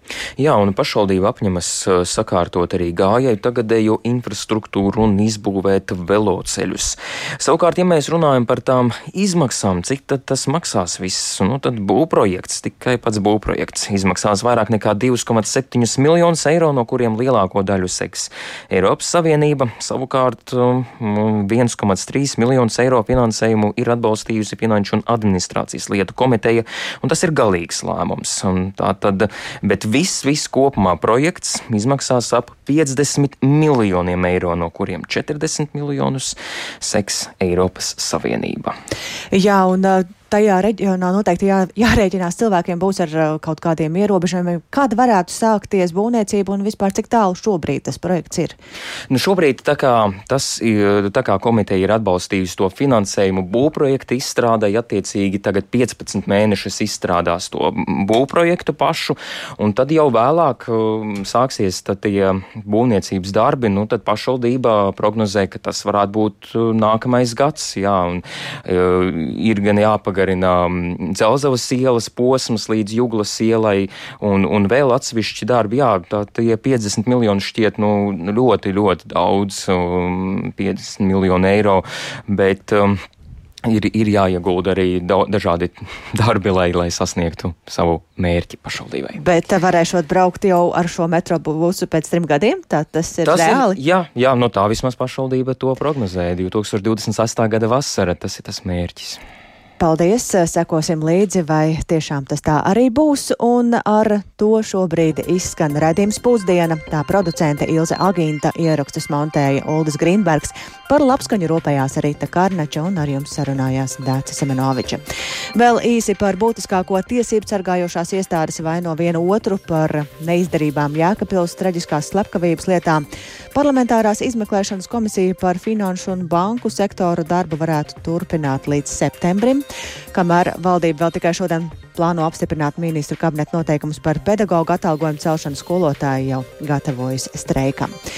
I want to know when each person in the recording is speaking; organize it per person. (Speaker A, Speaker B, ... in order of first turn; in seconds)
Speaker A: 0.4-38.7, 49.1-83.0, 83.7-89.2, 93.2-99.2
Speaker B: 39.3-48.6, 89.2-93.8, 99.8-115.0, 115.5-138.0